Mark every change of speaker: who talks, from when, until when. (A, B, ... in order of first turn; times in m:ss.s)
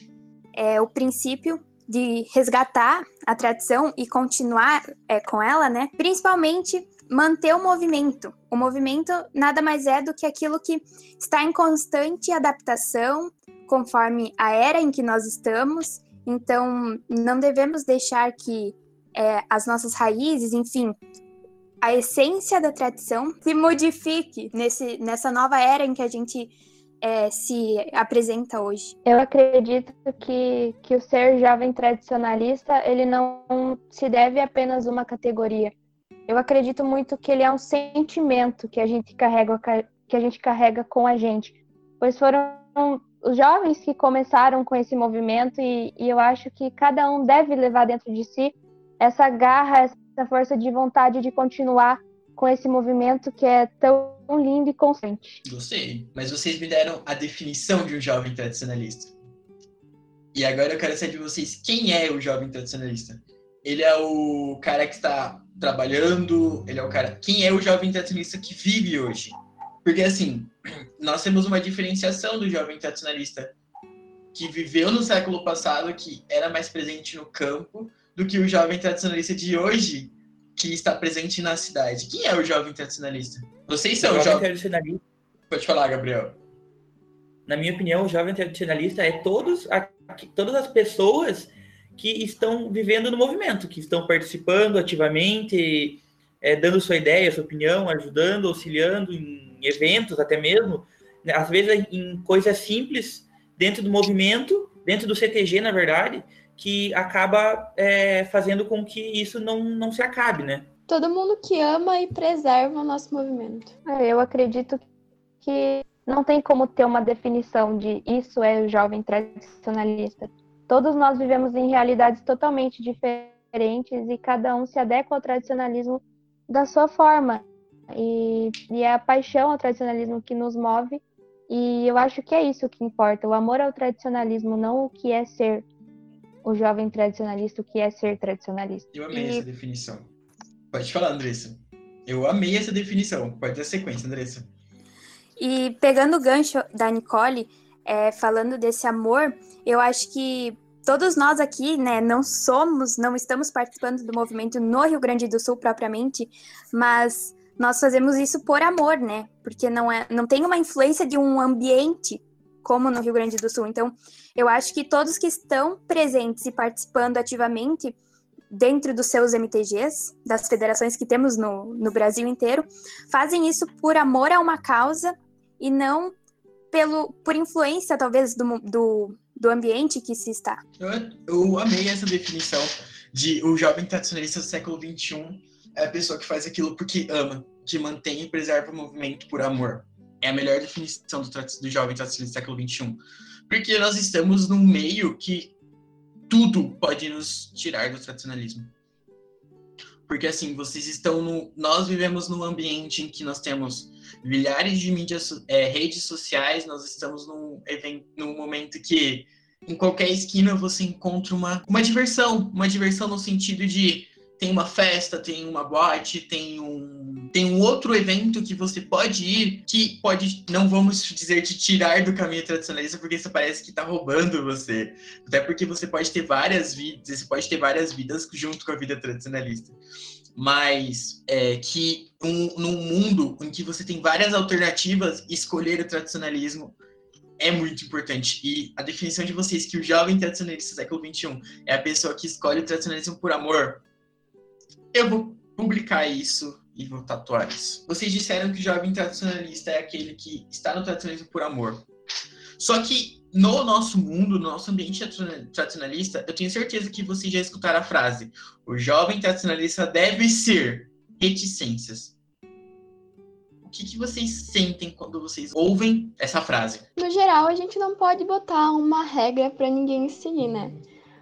0:00.6-0:21.0 A
0:21.8-0:29.0 A
0:29.0-0:35.7 B
0:36.3-0:55.4 B
0:55.4-0:59.1 C
1:00.3-1:13.5 C
1:14.3-1:24.5 C
1:24.0-1:25.0 D
1:25.5-1:26.4 C
1:27.5-1:50.7 D
1:50.9-1:53.7 E
1:53.8-1:54.8 B
1:55.4-2:15.6 B
2:16.4-2:18.9 B
2:18.9-2:20.1 C
2:19.1-2:19.4 A
2:20.7-2:24.5 C
2:25.4-2:48.0 A
2:48.5-2:56.1 A
2:56.7-3:00.6 A
3:00.8-3:15.5 C
3:16.3-3:18.7 C
3:20.0-3:49.8 C
3:50.4-3:56.8 C
3:57.4-4:03.8 C
4:04.9-4:11.9 C
4:12.6-4:22.1 C
4:23.6-4:26.8 C
4:27.0-4:30.8 E